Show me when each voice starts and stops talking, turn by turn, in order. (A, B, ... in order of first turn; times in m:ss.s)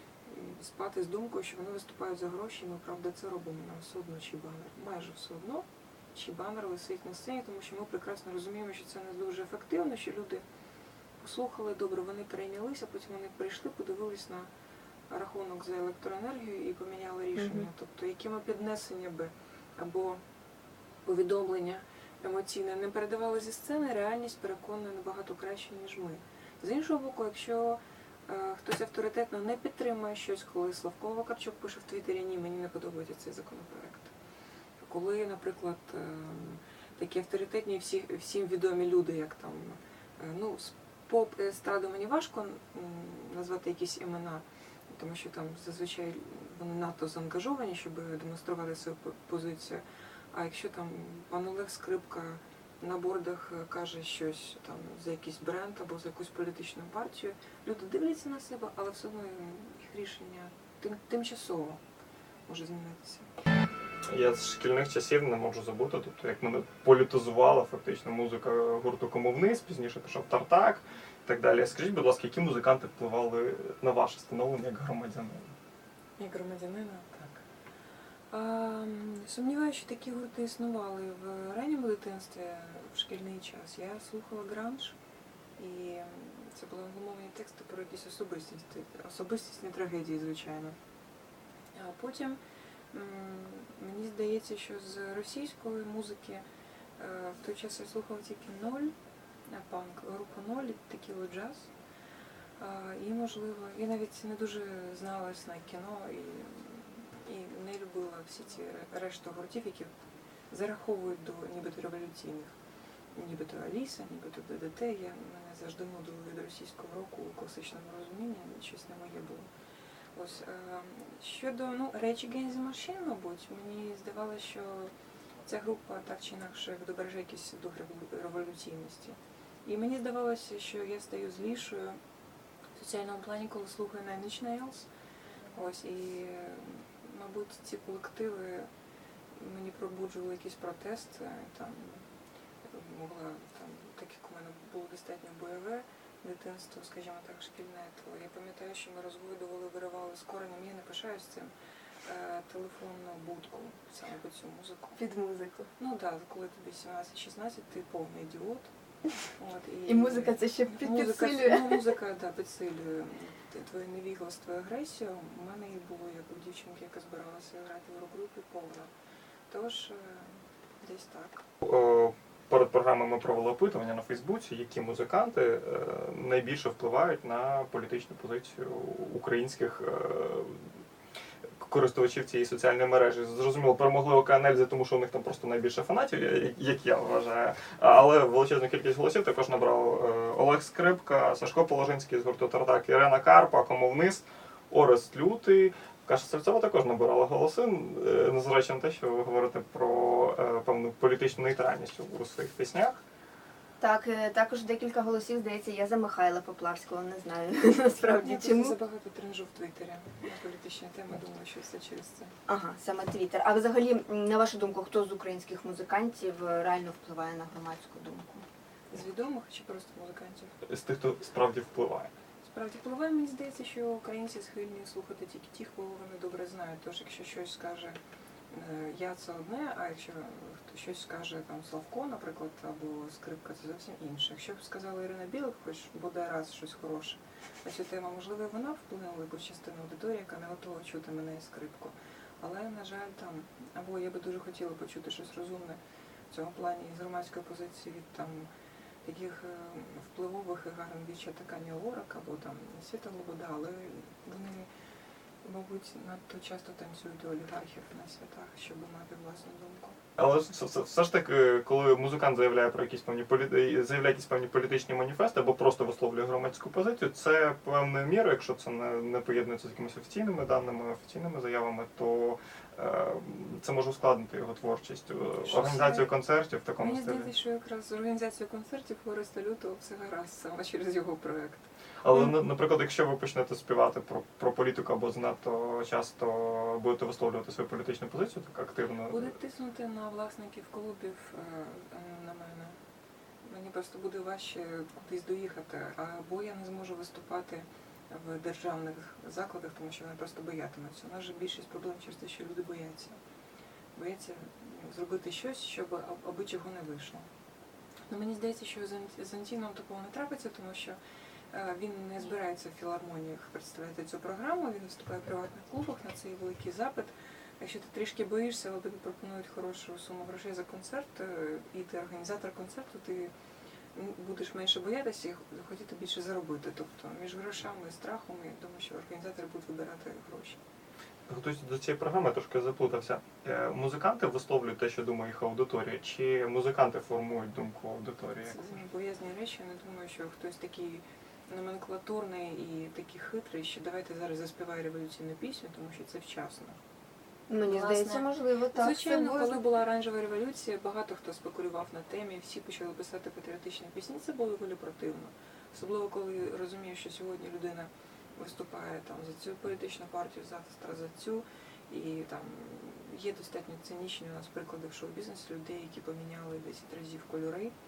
0:00.2-0:10.4 A
0:11.2-0:14.5 A
0:15.1-0:20.2 A
0:17.3-0:17.7 B
0:21.0-0:34.1 A
0:34.8-1:01.8 A
1:02.5-1:03.3 A
1:04.1-1:15.5 C
1:16.2-1:17.4 A
1:18.3-1:25.0 A
1:25.6-1:30.8 A
1:31.7-1:32.4 A
1:32.9-1:36.4 A
1:37.0-1:38.9 A
1:39.5-1:41.7 A
1:42.6-1:49.9 A
1:50.5-1:52.6 A
1:53.1-1:59.5 A
2:00.1-2:04.9 A
2:05.4-2:12.0 A
2:12.8-2:14.9 A
2:15.5-2:18.7 A
2:19.4-2:22.0 A
2:22.6-2:31.5 A
2:32.0-2:35.0 A
2:35.0-2:35.7 B
2:35.8-2:38.7 A
2:39.4-2:48.9 A
2:39.9-2:41.8 B
2:49.5-2:51.4 A
2:51.6-3:00.7 C
3:01.6-3:23.0 C
3:23.8-3:28.8 B
3:28.2-3:32.3 A
3:32.5-3:38.4 B
3:38.9-3:40.6 A
3:40.6-3:42.1 C
3:42.4-3:48.0 A
3:48.5-4:05.8 A
4:06.3-4:08.5 A
4:09.0-4:14.7 A
4:15.4-4:20.0 A
4:20.2-4:37.3 C
4:35.4-4:36.1 A
4:36.8-4:42.3 A
4:42.0-4:49.3 C
4:49.1-4:52.8 A
4:53.4-5:03.2 A
5:03.9-5:07.3 A
5:08.1-5:11.0 A
5:11.5-5:23.3 A
5:23.9-5:30.6 A
5:31.3-5:38.6 C
5:38.4-5:46.8 A
5:47.5-5:49.6 B
5:47.6-6:07.7 A